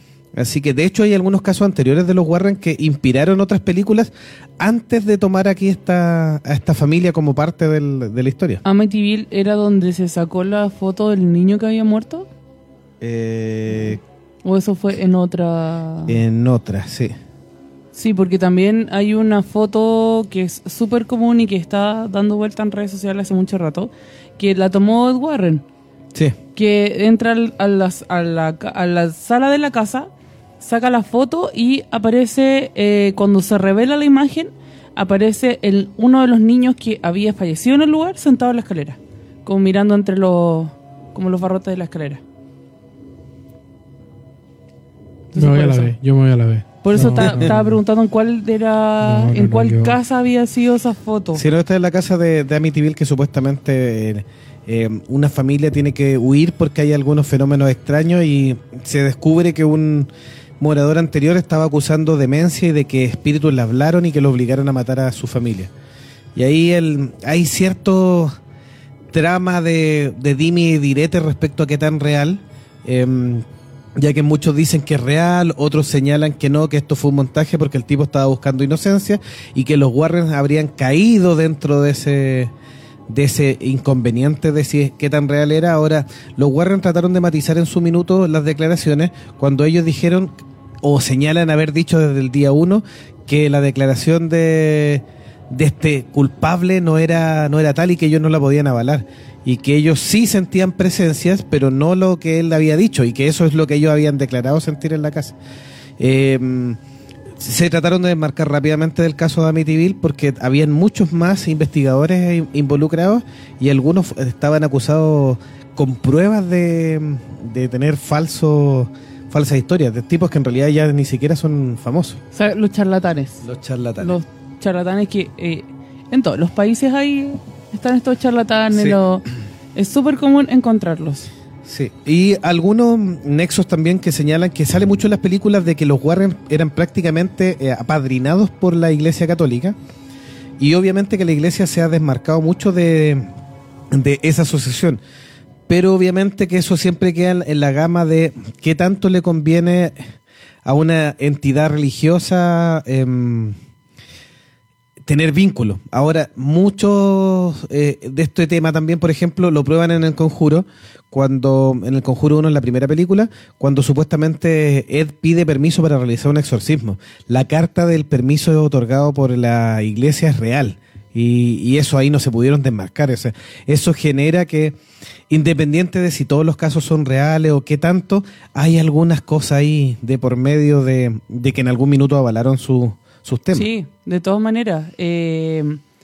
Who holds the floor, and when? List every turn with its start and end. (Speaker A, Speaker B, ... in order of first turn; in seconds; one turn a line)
Speaker A: 0.3-8.6
Speaker B: 8.6-12.3
Speaker A: 13.0-14.0
Speaker B: 14.4-16.2
Speaker A: 16.1-17.1
Speaker B: 17.9-25.6
Speaker B: 26.5-42.2
Speaker B: 45.3-45.9
Speaker C: 45.3-47.8
Speaker B: 46.8-51.4
Speaker C: 49.0-50.0
Speaker A: 51.3-65.7
Speaker A: 66.3-68.3
Speaker A: 69.1-73.5
Speaker A: 74.0-82.5
Speaker A: 83.1-105.3
Speaker A: 106.0-106.8
Speaker A: 107.4-122.2
Speaker B: 122.3-123.5
Speaker A: 123.4-124.2
Speaker B: 124.0-131.3
Speaker A: 128.7-129.0
Speaker A: 131.6-139.8
Speaker A: 140.6-143.3
Speaker A: 143.9-145.0
Speaker A: 145.7-150.1
Speaker A: 150.6-153.6
Speaker A: 155.0-174.8
Speaker A: 175.3-183.7
Speaker B: 183.5-185.8